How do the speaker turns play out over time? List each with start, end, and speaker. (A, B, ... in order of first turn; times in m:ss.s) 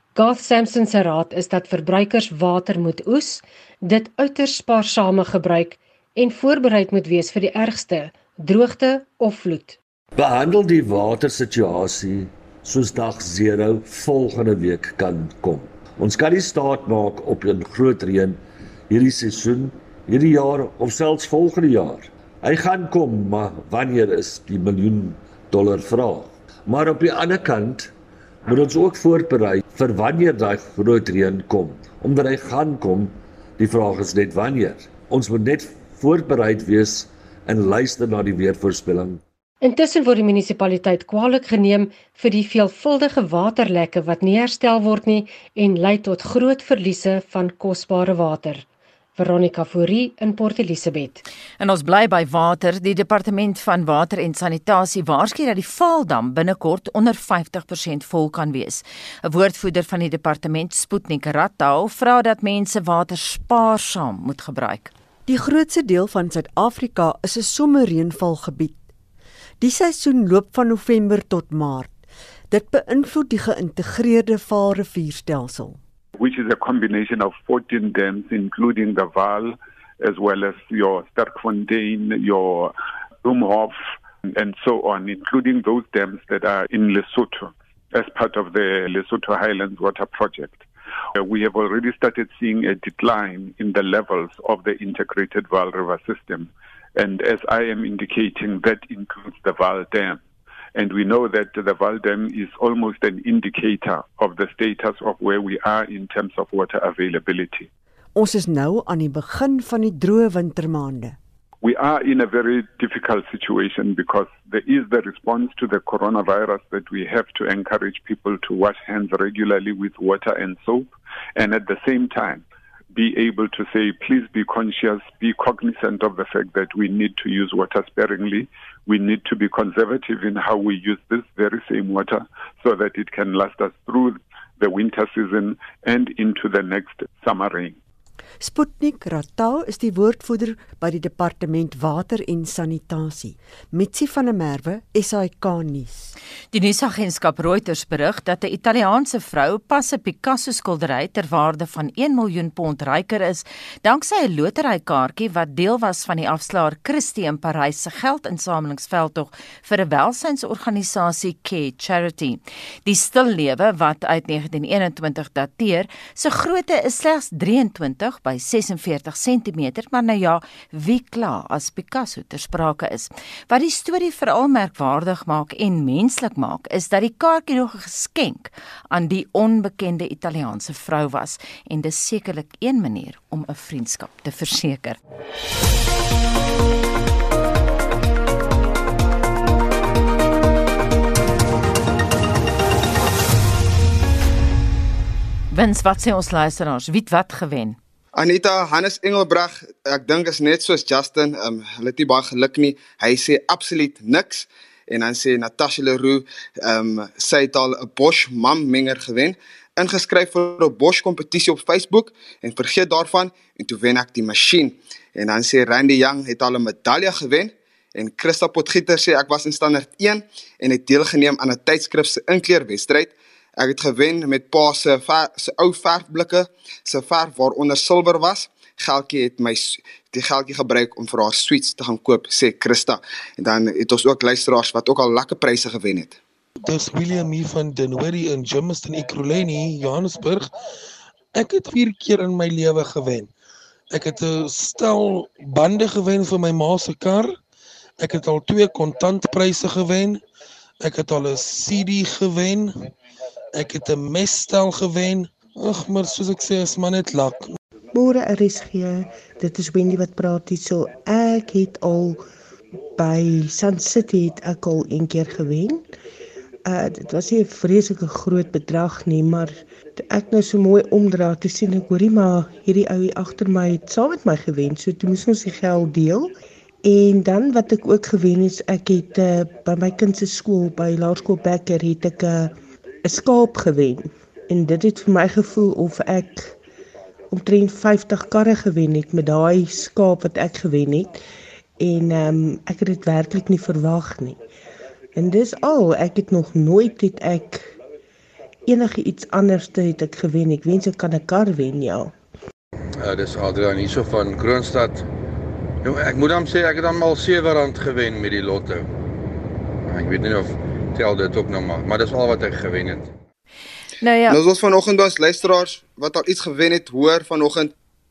0:00.2-0:09.8 A
0:10.2-0:27.9 B
0:28.4-0:39.2 B
0:39.6-0:48.6 A
0:49.2-0:51.2 A
0:51.6-1:04.9 C
1:05.2-1:08.8 D
1:09.6-1:15.8 D
1:16.2-1:30.6 E
1:31.2-1:40.2 E
1:40.8-1:47.7 E
1:48.1-1:51.2 D
1:51.6-2:17.8 E
2:18.4-2:26.1 D
2:26.5-3:05.0 C
3:15.5-3:17.8 C
3:18.1-3:56.2 F
3:56.6-4:00.5 G
4:01.3-4:03.3 G
4:03.9-4:07.4 G
4:08.0-4:10.2 G
4:10.8-4:12.9 G
4:13.5-4:17.6 G
4:17.9-4:22.2 H
4:23.0-4:25.9 H
4:26.6-4:46.6 H
4:47.3-4:51.2 H
4:51.8-4:54.4 H
4:55.1-4:57.8 H
4:58.6-5:02.1 H
5:03.0-5:05.1 I
5:05.8-5:08.9 I
5:09.8-5:13.1 I
5:14.0-5:14.4 C
5:14.3-5:17.7 F